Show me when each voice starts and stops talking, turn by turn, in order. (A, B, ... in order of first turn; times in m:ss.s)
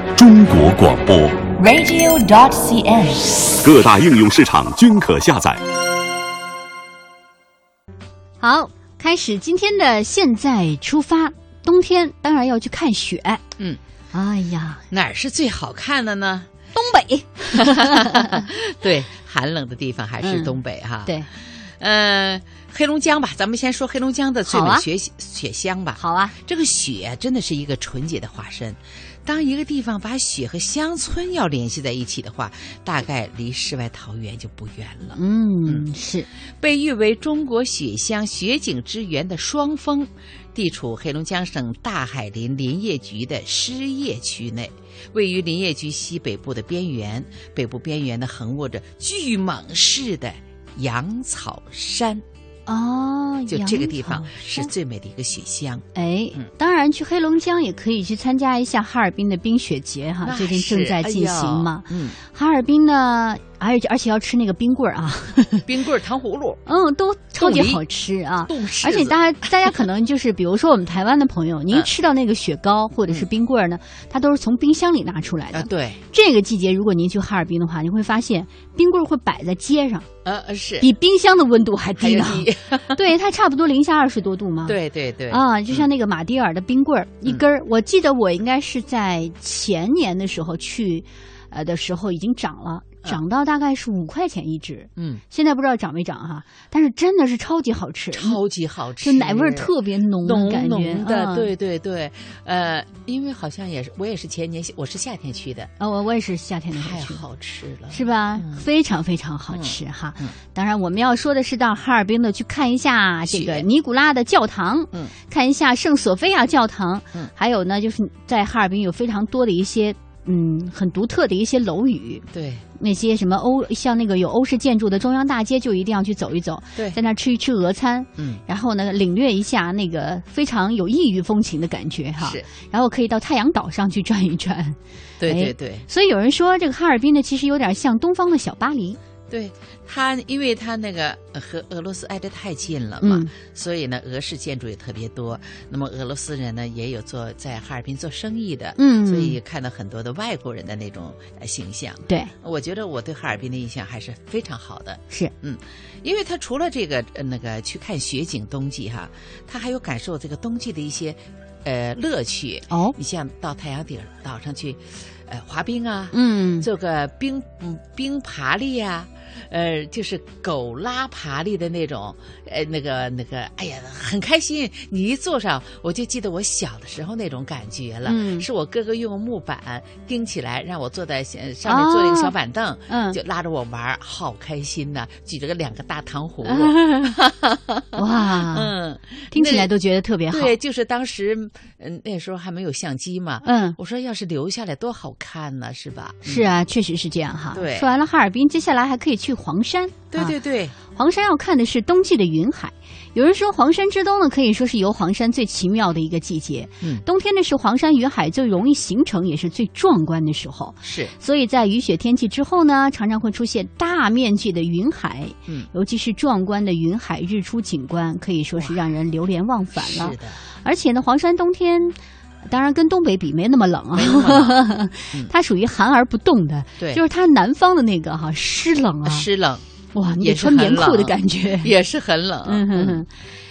0:00.2-0:01.5 A
0:01.6-0:03.5 B
0:03.6-0:05.6 A
0:08.4-0:13.4 C
0:14.1-0:14.8 C
0:14.9-0:16.5 D
0:16.7-0:18.4 C
0:17.5-0:35.9 D
0:20.2-0:21.3 C
0:24.4-0:24.9 C
0:26.0-0:26.3 C
0:35.2-0:36.3 C
0:36.6-0:52.2 D
0:52.7-0:54.7 C
0:53.5-0:56.5 D
0:55.9-1:05.7 C
1:00.2-1:02.2 D
1:05.6-1:06.6 D
1:06.6-1:20.1 C
1:07.3-1:07.8 D
1:08.4-1:09.2 D
1:15.5-1:16.0 D
1:20.2-1:20.9 D
1:20.8-1:38.4 C
1:22.0-1:23.0 D
1:24.6-1:25.9 D
1:35.0-1:35.2 D
1:38.1-1:45.7 D
1:39.0-1:41.5 C
1:45.8-1:47.2 C
1:46.7-1:48.6 D
1:47.9-2:02.2 C
1:49.5-1:50.4 D
1:53.2-1:53.7 D
2:02.3-2:02.6 D
2:02.8-2:19.0 C
2:08.2-2:08.4 D
2:12.2-2:12.5 D
2:15.2-2:15.8 D
2:19.3-3:09.7 D
2:23.0-2:23.3 C
2:28.8-2:29.4 C
2:42.7-2:43.0 C
2:46.1-2:46.7 C
2:58.0-2:58.5 C
3:01.6-3:02.3 C
3:02.9-3:03.2 C
3:06.4-3:07.2 C
3:07.9-3:08.7 C
3:09.3-3:10.5 C
3:10.3-3:16.5 D
3:13.4-3:13.8 C
3:16.2-3:20.4 C
3:17.5-3:17.9 D
3:20.1-3:20.7 D
3:20.9-3:49.3 C
3:30.8-3:31.1 D
3:39.8-3:40.4 D
3:43.9-3:45.3 D
3:49.0-3:49.6 D
3:49.9-3:51.7 C
3:50.1-3:53.0 D
3:52.4-3:53.1 C